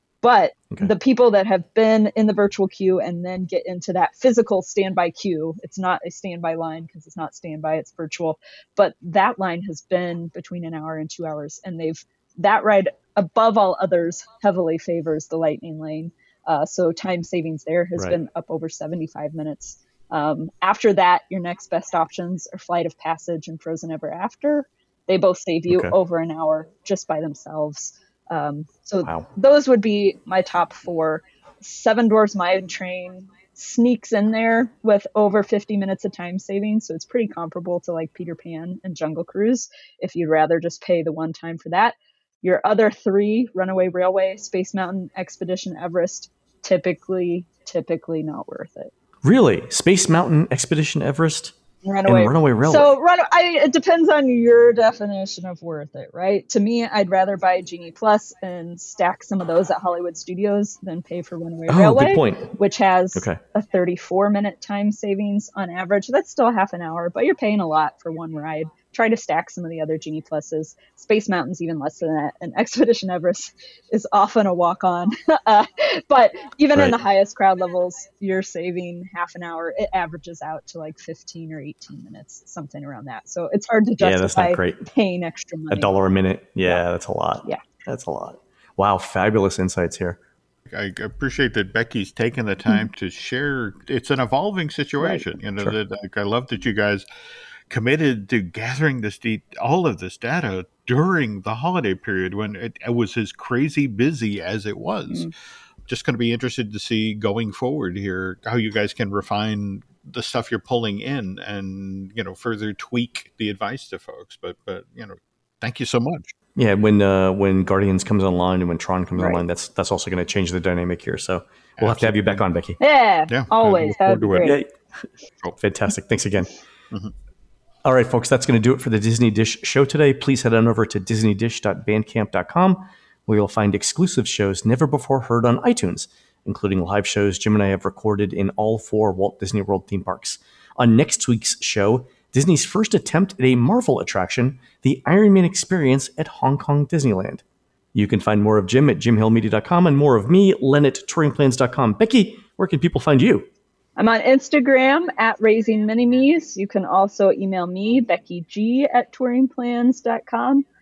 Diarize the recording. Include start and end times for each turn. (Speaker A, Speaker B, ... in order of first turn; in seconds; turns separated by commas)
Speaker A: 0.2-48.9, Speaker B: 25.7-25.9, Speaker B: 49.2-51.5, Speaker A: 51.8-85.9, Speaker B: 52.0-52.9, Speaker B: 61.7-62.5, Speaker B: 84.0-84.8, Speaker B: 85.7-90.2, Speaker C: 90.7-97.0, Speaker C: 97.7-105.3, Speaker C: 105.9-116.3, Speaker B: 116.5-122.8, Speaker A: 119.2-119.4, Speaker C: 121.8-122.4, Speaker A: 122.8-124.6, Speaker C: 123.3-124.6, Speaker B: 124.4-124.7, Speaker B: 125.6-126.5, Speaker B: 127.8-147.4, Speaker B: 147.9-153.5, Speaker A: 154.0-160.6